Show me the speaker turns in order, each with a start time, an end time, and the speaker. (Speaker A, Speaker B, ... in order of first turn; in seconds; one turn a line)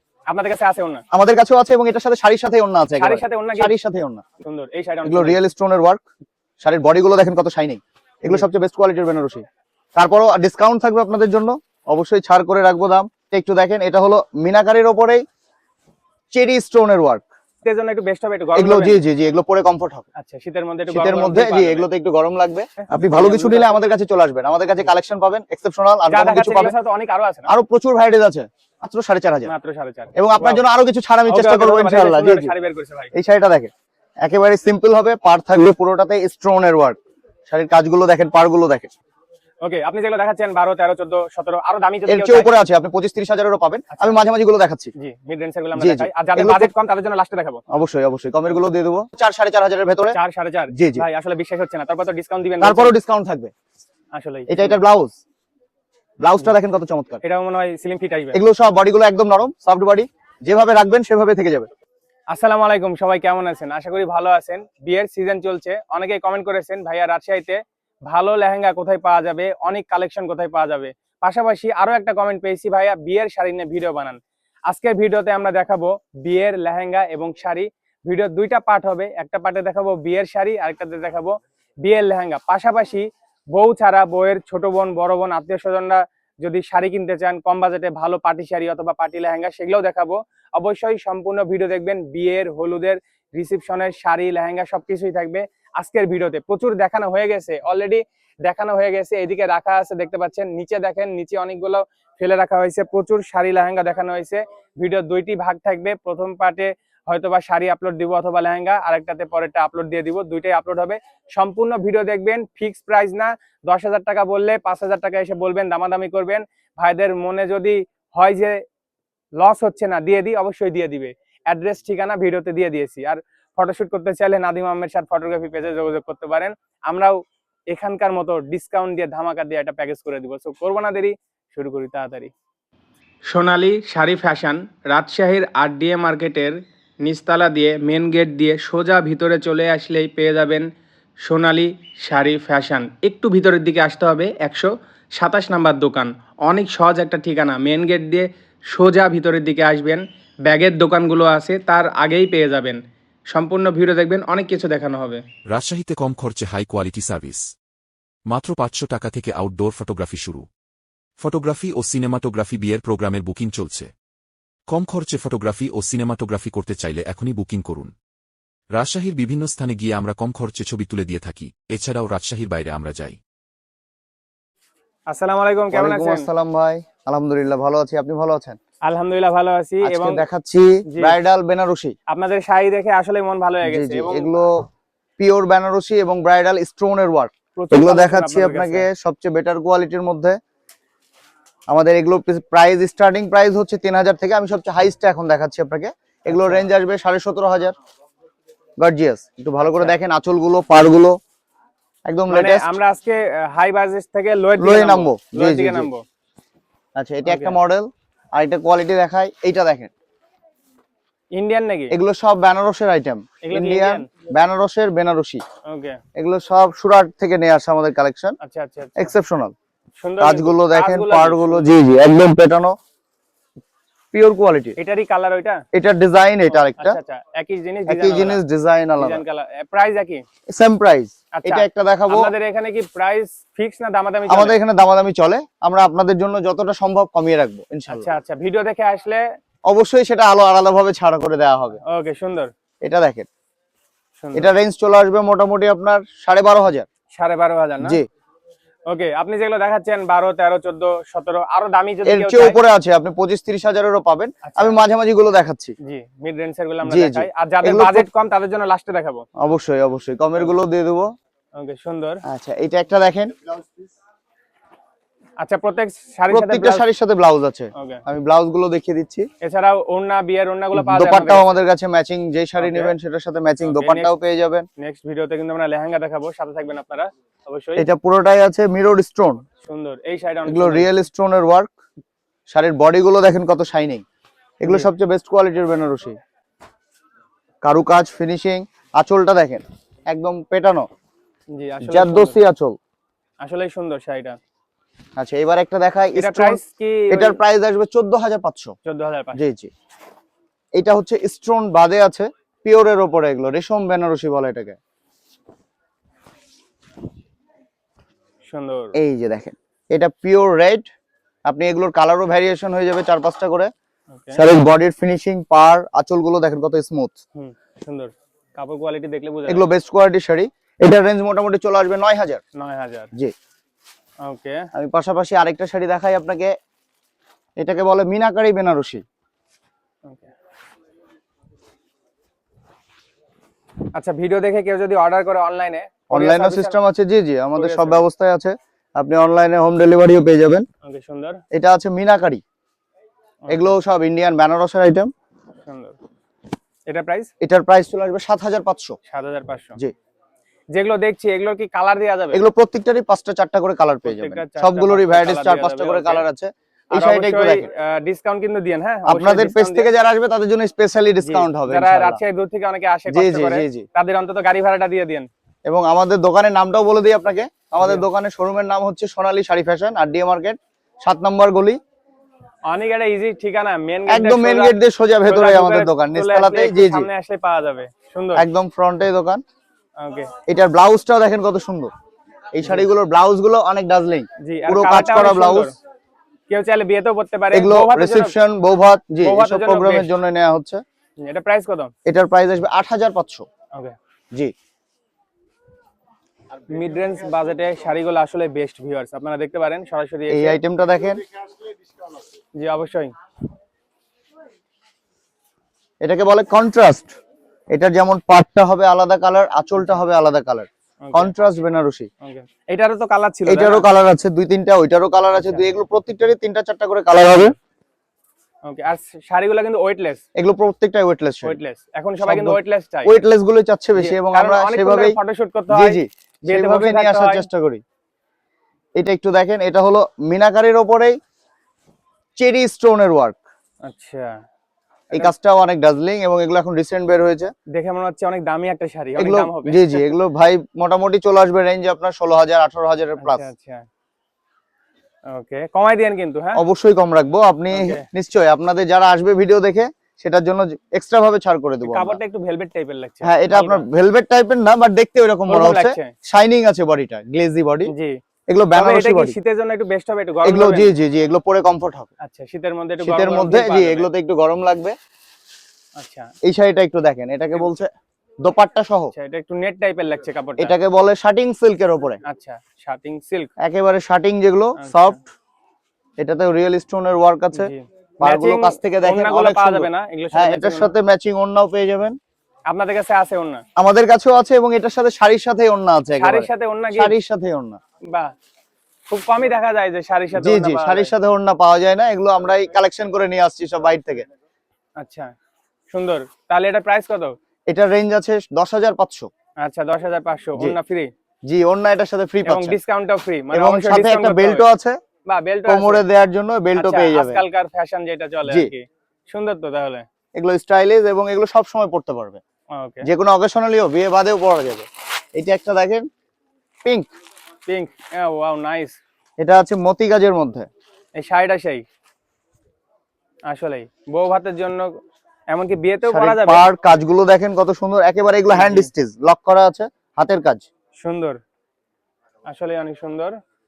Speaker A: 0.3-1.0
Speaker B: 1.1-4.2
Speaker A: 3.0-3.7
Speaker A: 4.4-5.4
Speaker B: 5.0-6.0
Speaker B: 6.6-9.4
Speaker B: 9.9-15.2
Speaker B: 16.3-17.2
Speaker A: 17.6-19.0
Speaker B: 18.5-20.1
Speaker A: 20.2-21.9
Speaker B: 20.9-26.7
Speaker A: 22.8-23.9
Speaker A: 26.1-27.5
Speaker B: 27.5-29.5
Speaker A: 29.4-30.6
Speaker B: 30.1-32.5
Speaker A: 31.3-33.1
Speaker B: 33.1-33.7
Speaker B: 34.2-38.9
Speaker A: 39.6-42.5
Speaker B: 42.1-44.9
Speaker A: 45.0-47.6
Speaker B: 45.8-46.7
Speaker B: 47.7-50.2
Speaker A: 50.1-53.0
Speaker B: 50.7-51.0
Speaker B: 52.6-53.5
Speaker A: 54.1-54.8
Speaker B: 54.5-55.2
Speaker B: 56.2-57.2
Speaker A: 57.2-58.4
Speaker B: 58.3-61.7
Speaker A: 62.3-118.6
Speaker A: 119.4-127.2
Speaker A: 127.7-132.3
Speaker A: 133.3-140.7
Speaker A: 141.2-152.8
Speaker A: 153.3-155.2
Speaker C: 155.5-157.5
Speaker C: 158.3-160.5
Speaker C: 161.2-163.9
Speaker C: 164.7-167.9
Speaker C: 168.7-173.2
Speaker A: 175.1-176.3
Speaker B: 175.7-178.6
Speaker A: 178.8-180.2
Speaker B: 179.8-181.9
Speaker A: 180.9-181.2
Speaker A: 182.1-184.3
Speaker B: 183.6-184.5
Speaker B: 185.2-190.4
Speaker A: 187.5-188.9
Speaker B: 191.7-197.7
Speaker A: 196.3-196.7
Speaker B: 198.8-201.2
Speaker A: 199.6-199.9
Speaker B: 202.1-202.7
Speaker A: 202.3-206.0
Speaker B: 204.6-205.9
Speaker B: 206.9-209.9
Speaker A: 207.2-207.6
Speaker A: 211.3-211.9
Speaker B: 211.9-215.4
Speaker A: 213.4-214.1
Speaker A: 215.7-216.0
Speaker B: 216.2-218.3
Speaker A: 218.4-219.1
Speaker B: 219.0-219.5
Speaker A: 220.0-221.7
Speaker B: 220.2-222.7
Speaker B: 224.1-224.8
Speaker A: 224.8-225.6
Speaker B: 225.7-227.0
Speaker A: 226.5-228.4
Speaker B: 227.9-229.2
Speaker A: 229.0-230.2
Speaker B: 230.5-232.3
Speaker A: 231.3-234.6
Speaker B: 234.3-238.1
Speaker A: 237.9-239.2
Speaker B: 239.7-241.8
Speaker A: 241.8-242.5
Speaker B: 242.8-243.3
Speaker A: 244.2-244.5
Speaker B: 244.3-246.9
Speaker A: 247.1-248.0
Speaker A: 248.9-252.6
Speaker B: 252.1-255.7
Speaker A: 254.4-254.8
Speaker A: 255.8-259.2
Speaker B: 256.9-258.1
Speaker B: 259.4-261.1
Speaker A: 261.6-262.2
Speaker B: 262.3-263.4
Speaker A: 265.4-266.9
Speaker B: 266.3-269.3
Speaker A: 267.8-268.0
Speaker A: 269.4-271.5
Speaker B: 270.7-274.6
Speaker A: 272.6-272.9
Speaker A: 273.6-274.1
Speaker A: 274.8-277.9
Speaker B: 277.8-279.4
Speaker A: 279.6-280.9
Speaker B: 280.4-281.7
Speaker B: 282.5-284.0
Speaker B: 284.6-286.1
Speaker A: 284.6-284.9
Speaker B: 287.6-290.9
Speaker A: 291.5-292.4
Speaker B: 291.8-292.8
Speaker A: 293.4-294.4
Speaker B: 295.2-298.7
Speaker A: 296.1-297.4
Speaker A: 298.9-299.4
Speaker B: 299.4-299.7
Speaker B: 300.7-304.8
Speaker A: 308.4-308.9
Speaker B: 308.9-310.9
Speaker B: 311.5-313.7
Speaker A: 314.1-314.4
Speaker B: 314.3-317.1
Speaker A: 317.3-319.6
Speaker B: 319.5-322.4
Speaker A: 322.6-323.1
Speaker A: 324.2-324.6
Speaker B: 324.7-326.5
Speaker B: 327.6-329.0
Speaker A: 330.0-330.3
Speaker A: 333.9-336.8
Speaker B: 336.1-340.6
Speaker A: 337.5-338.1
Speaker A: 340.8-341.4
Speaker B: 341.5-342.4
Speaker B: 343.5-345.1
Speaker A: 345.6-345.9
Speaker A: 346.9-347.3
Speaker B: 347.4-348.9
Speaker A: 349.1-349.8
Speaker A: 350.7-352.4
Speaker B: 352.3-357.6
Speaker A: 354.0-356.2
Speaker A: 356.9-359.9
Speaker B: 359.0-362.2
Speaker A: 361.2-365.3
Speaker B: 363.1-363.8
Speaker B: 365.6-371.8
Speaker A: 367.8-368.1
Speaker A: 372.7-378.4
Speaker B: 374.1-377.1
Speaker B: 378.4-379.4
Speaker A: 380.0-380.3
Speaker B: 380.5-381.9
Speaker B: 382.5-385.7
Speaker A: 384.4-385.8
Speaker A: 386.5-388.3
Speaker B: 387.5-390.8
Speaker A: 389.2-390.2
Speaker A: 391.2-391.9
Speaker B: 392.1-393.4
Speaker A: 396.7-400.6
Speaker B: 400.3-401.2
Speaker A: 402.6-403.1
Speaker B: 406.0-407.1
Speaker B: 407.7-412.1
Speaker A: 411.0-411.3
Speaker A: 412.2-413.8
Speaker B: 413.4-417.5
Speaker A: 418.6-420.2
Speaker B: 420.3-421.6
Speaker A: 421.4-423.1
Speaker B: 422.2-425.2
Speaker A: 424.0-427.5
Speaker B: 425.7-427.8
Speaker B: 429.0-431.1
Speaker B: 432.4-433.4
Speaker A: 433.8-434.4
Speaker B: 435.1-437.5
Speaker A: 437.7-440.0
Speaker B: 439.2-443.5
Speaker A: 443.2-443.9
Speaker A: 445.3-446.6
Speaker B: 446.6-452.2
Speaker A: 447.7-448.1
Speaker A: 451.8-453.9
Speaker B: 453.2-457.9
Speaker A: 455.5-456.1
Speaker A: 457.9-458.2
Speaker B: 458.5-459.4
Speaker A: 458.7-460.9
Speaker B: 460.4-462.1
Speaker A: 462.2-464.1
Speaker B: 463.0-464.9
Speaker A: 466.0-466.3
Speaker B: 466.4-469.1
Speaker A: 469.1-470.8
Speaker B: 470.6-472.2
Speaker A: 472.2-473.5
Speaker B: 473.6-475.2
Speaker A: 474.8-475.2
Speaker B: 476.2-482.2
Speaker A: 477.5-480.9
Speaker A: 482.7-483.6
Speaker B: 483.8-487.8
Speaker A: 486.2-487.1
Speaker A: 489.1-491.1
Speaker B: 490.4-494.3
Speaker A: 495.0-495.3
Speaker A: 495.9-497.3
Speaker B: 497.7-499.3
Speaker A: 499.6-501.1
Speaker B: 501.4-502.8
Speaker A: 502.4-504.7
Speaker B: 503.5-505.0
Speaker A: 505.2-506.0
Speaker B: 505.6-507.4
Speaker A: 506.8-510.1
Speaker B: 510.3-512.4
Speaker A: 512.7-513.1
Speaker B: 513.0-516.0
Speaker B: 516.8-517.1
Speaker A: 517.7-519.0
Speaker B: 519.4-520.7
Speaker A: 521.2-521.8
Speaker A: 523.5-524.9
Speaker A: 525.5-526.6
Speaker B: 526.1-530.6
Speaker A: 528.5-528.9
Speaker A: 531.0-531.4
Speaker A: 532.5-533.3